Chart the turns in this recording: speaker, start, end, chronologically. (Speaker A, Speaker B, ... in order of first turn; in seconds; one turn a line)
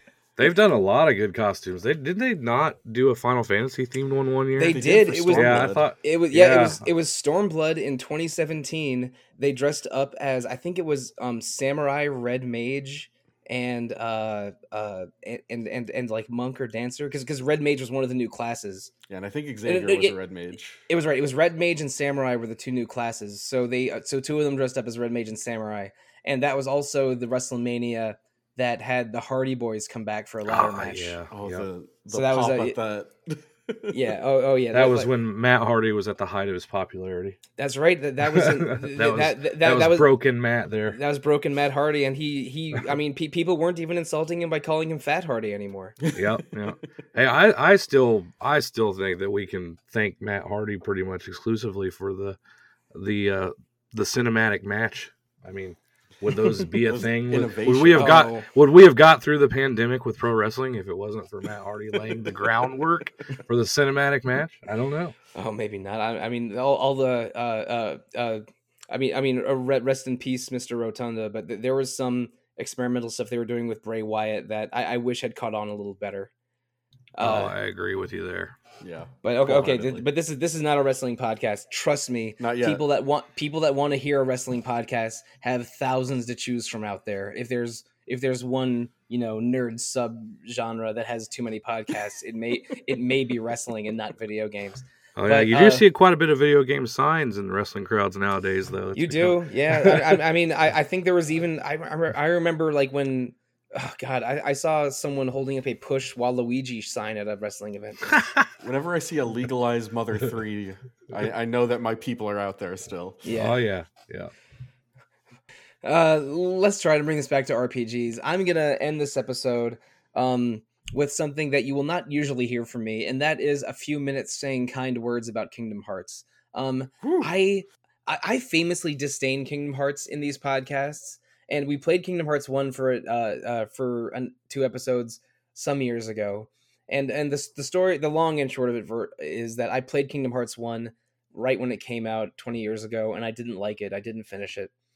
Speaker A: 0.4-6.9
Speaker B: 4.6-18.9
Speaker C: 4.6-5.9
Speaker C: 19.1-20.8
Speaker B: 19.6-20.2
Speaker B: 20.9-31.2
Speaker A: 30.4-31.7
Speaker C: 31.3-34.0
Speaker B: 32.1-32.8
Speaker B: 33.9-35.1
Speaker A: 34.7-37.4
Speaker B: 37.6-40.1
Speaker A: 38.2-41.0
Speaker B: 40.9-46.0
Speaker A: 46.1-52.4
Speaker A: 52.9-65.2
Speaker C: 56.8-58.3
Speaker B: 57.9-58.5
Speaker B: 65.3-76.3
Speaker B: 77.2-77.5
Speaker A: 77.2-78.5
Speaker C: 78.8-80.1
Speaker B: 79.2-95.8
Speaker C: 82.4-82.8
Speaker A: 95.2-100.2
Speaker B: 98.9-108.1
Speaker A: 108.2-108.5
Speaker C: 108.6-113.2
Speaker B: 113.2-113.6
Speaker A: 113.3-114.3
Speaker B: 115.8-144.7
Speaker C: 127.0-127.3